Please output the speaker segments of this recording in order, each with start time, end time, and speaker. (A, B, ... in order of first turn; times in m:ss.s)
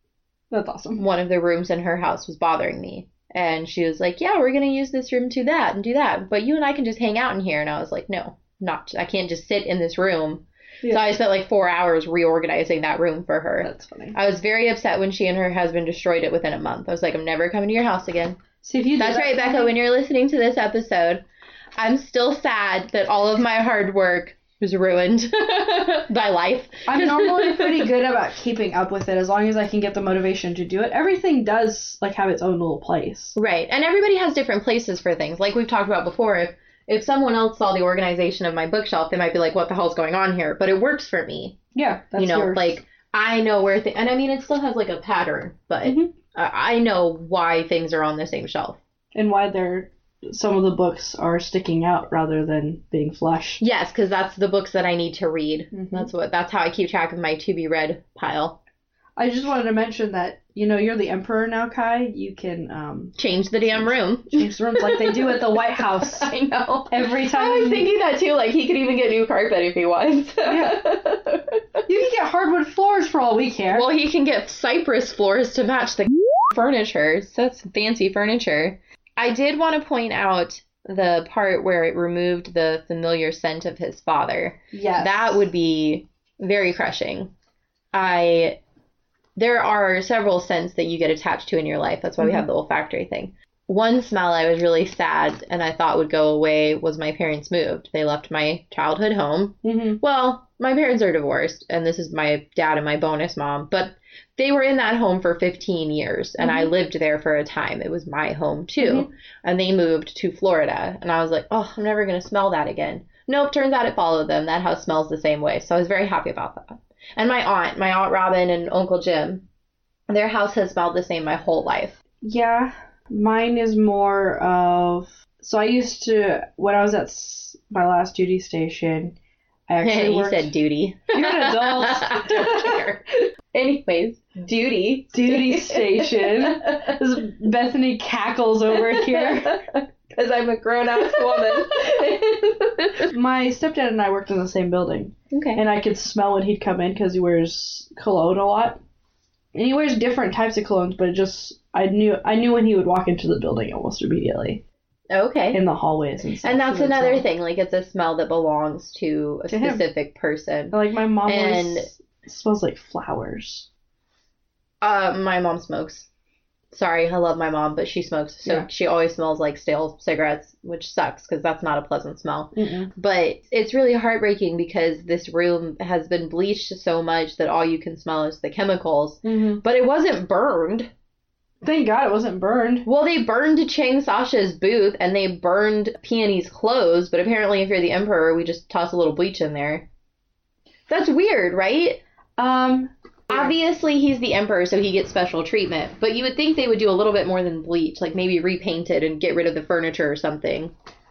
0:00.5-0:01.0 A
0:01.0-0:18.4 B
0:10.8-0:11.2 A
0:13.6-0:14.2 A
0:18.6-0:19.8 A
0:19.0-0:21.2 B
0:21.8-0:27.9 B
0:26.9-0:33.4 A
0:33.4-0:41.6 B
0:41.8-0:42.8 A
0:42.2-0:48.8 B
0:45.8-0:46.1 A
0:49.1-0:53.6 A
0:53.6-0:58.6 B
0:55.7-0:56.1 A
0:59.2-1:06.3 A
1:03.2-1:11.8 B
1:06.9-1:07.9 A
1:10.4-1:10.8 A
1:11.9-1:13.9 A
1:13.7-1:27.3 B
1:24.7-1:25.4 A
1:27.9-1:28.6 B
1:29.4-1:59.4 B
1:32.2-1:32.4 A
1:39.6-1:40.0 A
1:46.4-1:46.7 A
1:48.8-1:49.1 A
2:00.1-2:02.0 B
2:02.2-2:09.2 A
2:09.7-2:10.5 A
2:09.8-2:17.0 B
2:11.1-2:12.8 A
2:15.1-2:19.6 A
2:18.8-2:23.1 B
2:21.0-2:21.9 A
2:23.1-2:28.8 A
2:25.3-2:25.6 B
2:29.5-2:34.6 A
2:35.1-2:35.6 B
2:35.5-2:37.3 A
2:36.4-2:41.9 B
2:39.5-2:39.9 A
2:40.7-2:43.7 A
2:44.8-2:46.1 B
2:46.7-3:00.9 B
2:52.6-2:52.9 A
2:59.2-2:59.6 A
3:01.6-3:02.9 A
3:02.8-3:09.9 B
3:10.9-3:12.0 B
3:12.4-3:13.6 A
3:13.3-3:20.7 B